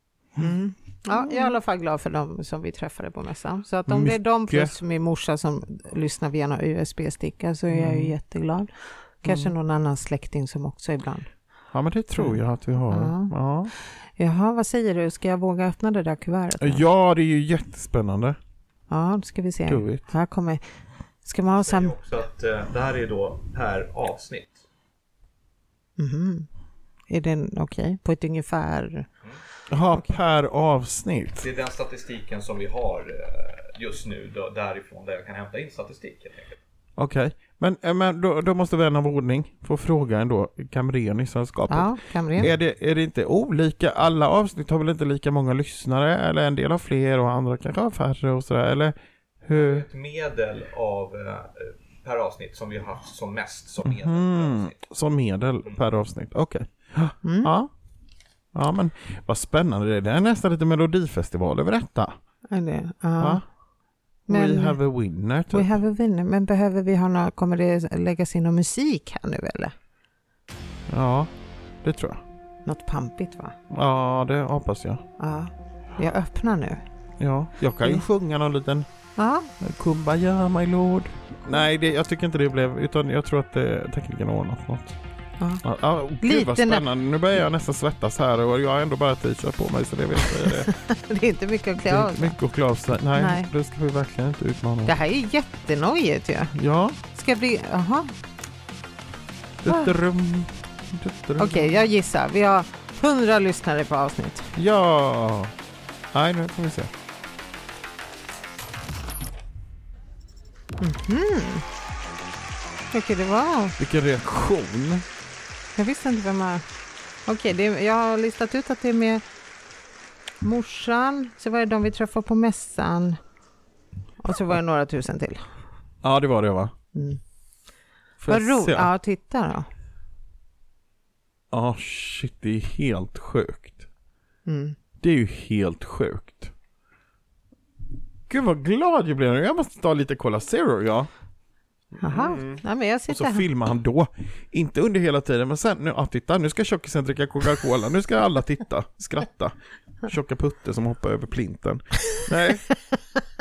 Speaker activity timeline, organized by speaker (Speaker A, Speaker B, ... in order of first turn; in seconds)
Speaker A: 0.4-8.7, 9.2-11.3, 12.9-13.3, 14.2-16.8, 18.9-20.6, 21.2-21.9, 26.0-26.5, 27.1-29.1, 41.7-42.5, 57.2-57.5, 62.5-63.4, 64.3-64.8, 65.5-69.7, 72.6-73.5, 75.2-76.8, 79.2-79.5, 86.2-86.8, 90.4-92.3, 93.1-93.5, 94.8-96.5, 97.1-98.1, 101.4-104.5, 110.8-111.6, 112.9-113.8, 115.8-116.6, 117.2-119.2, 120.4-123.2, 124.2-125.4, 126.9-127.2, 128.3-129.7, 134.4-134.8, 142.0-143.4, 152.7-153.0
Speaker B: 1.1-1.5, 3.9-4.7, 7.7-8.2, 9.2-9.5, 11.7-13.7, 16.6-18.4, 19.7-20.0, 29.7-31.4, 37.0-49.8, 53.8-57.7, 58.5-62.1, 64.3-65.7, 70.9-71.3, 71.8-72.2, 73.7-75.0, 77.2-78.8, 79.6-85.0, 85.6-90.7, 91.9-94.9, 96.5-97.0, 99.6-101.8, 104.5-105.5, 106.1-106.9, 113.8-115.0, 126.0-126.7, 128.2-128.9, 131.5-133.8, 135.0-136.5, 138.3-141.1, 142.1-152.6
Speaker C: 21.6-24.6, 31.4-36.6, 49.5-54.8